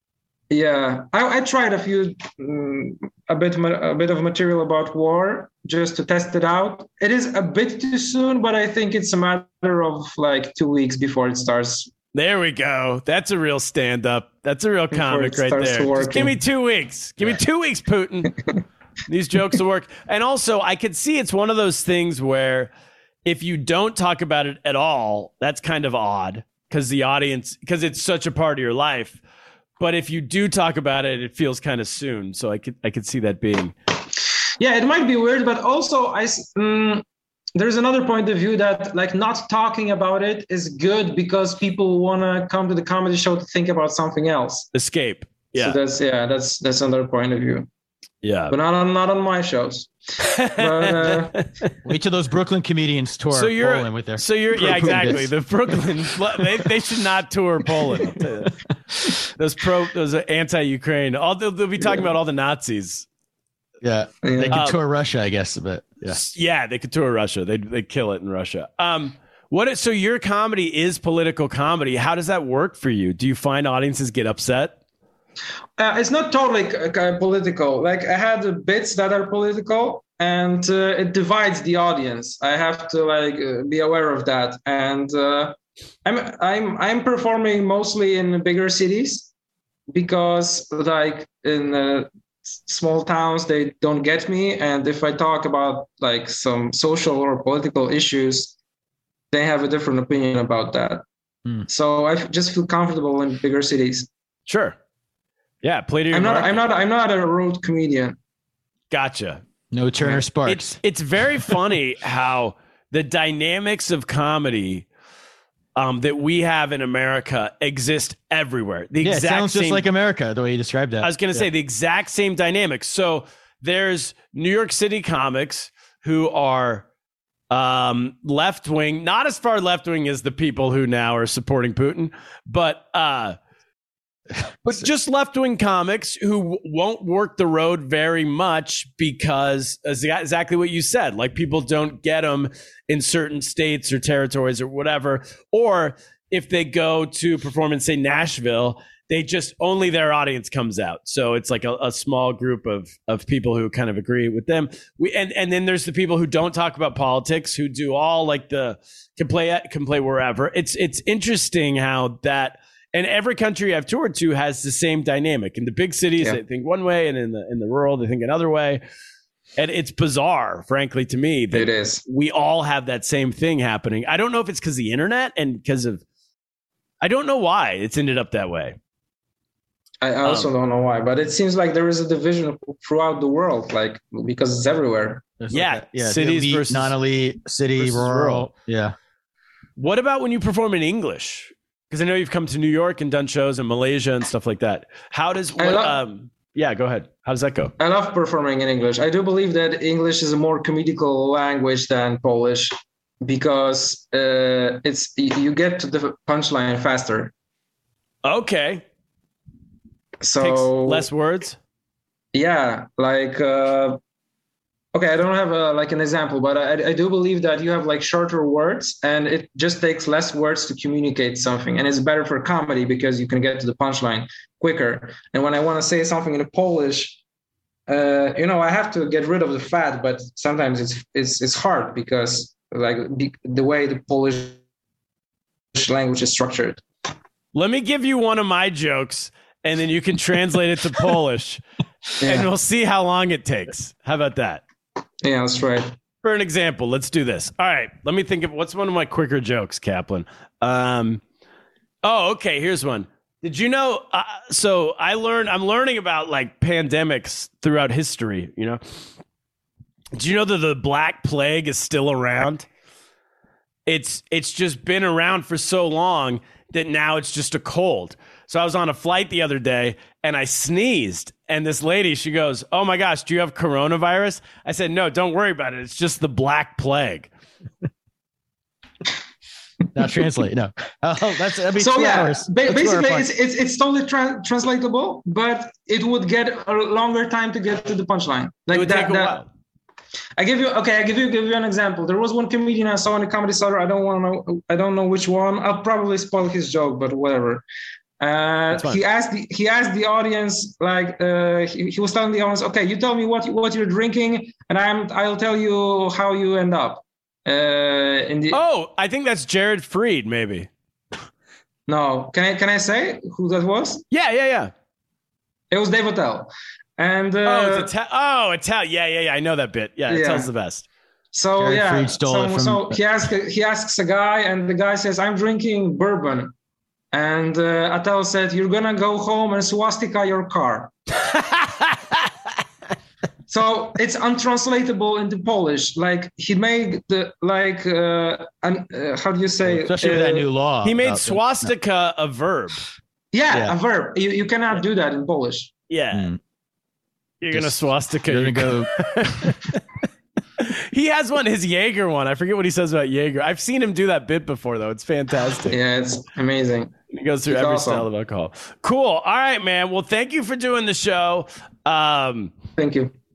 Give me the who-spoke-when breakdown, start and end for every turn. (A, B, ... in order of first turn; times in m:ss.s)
0:00.5-0:11.9 A
0:12.1-0:18.4 B
0:14.9-0:16.4 A
0:19.1-0:22.7 B
0:23.2-0:29.2 B
0:29.8-0:33.7 B
0:34.6-0:37.0 A
0:37.6-0:44.7 A
0:44.7-0:45.8 B
0:45.6-0:47.7 A
0:48.2-0:48.6 B
0:48.5-0:49.9 A
0:50.2-0:51.4 B
0:50.5-0:51.4 A
0:51.8-0:55.8 C
0:53.3-0:58.5 B
0:59.3-1:03.1 B
1:03.8-1:06.2 C
1:04.2-1:04.6 A
1:04.5-1:04.8 B
1:06.1-1:14.8 B
1:15.8-1:29.3 A
1:29.9-1:38.6 A
1:39.3-1:41.0 A
1:41.7-1:44.1 A
1:44.5-1:44.8 B
1:45.6-1:46.6 B
1:46.1-1:48.2 A
1:48.9-1:49.4 B
1:49.7-1:50.8 C
1:50.4-1:54.9 B
1:55.8-1:59.9 B
1:59.0-2:01.5 C
2:01.0-2:06.8 B
2:07.5-2:13.4 B
2:14.6-2:48.8 B
2:49.6-2:56.0 B
2:51.5-2:52.0 A
2:57.0-2:58.8 B
3:00.0-3:05.2 A
3:00.2-3:00.5 B
3:05.4-3:09.0 C
3:05.5-3:07.0 B
3:07.8-3:08.5 B
3:09.8-3:17.7 B
3:15.6-3:16.0 A
3:17.8-3:27.3 A
3:28.2-3:28.8 B
3:30.2-3:31.1 A
3:30.4-3:31.6 B
3:32.3-3:34.0 A
3:34.9-3:47.2 A
3:47.9-3:54.6 A
3:55.8-3:56.8 A
3:57.5-4:01.6 B
4:02.2-4:04.6 B
4:02.2-4:02.5 A
4:05.2-4:05.9 A
4:06.2-4:11.2 B
4:12.0-4:18.8 B
4:20.1-4:22.7 B
4:23.9-4:37.3 B
4:39.9-4:43.3 C
4:41.8-4:49.4 A
4:48.7-4:49.5 B
4:50.4-4:57.6 A
4:58.2-5:08.6 A
4:58.7-4:59.0 B
5:08.5-5:10.7 B
5:11.9-5:14.0 A
5:14.1-5:14.7 B
5:15.7-5:17.9 A
5:17.4-5:20.8 B
5:20.1-5:20.5 A
5:21.3-5:26.5 A
5:21.6-5:23.0 C
5:27.1-5:30.9 A
5:31.2-5:32.3 B
5:33.5-5:40.5 A
5:39.6-5:41.7 C
5:40.8-5:42.8 B
5:43.3-5:45.7 A
5:43.5-5:43.8 C
5:45.9-5:46.3 B
5:46.1-5:46.4 C
5:47.4-5:49.8 B
5:47.5-5:49.5 C
5:50.6-5:55.8 B
5:55.7-5:56.9 A
5:57.1-6:02.5 B
5:57.5-5:58.1 A
6:02.8-6:03.1 A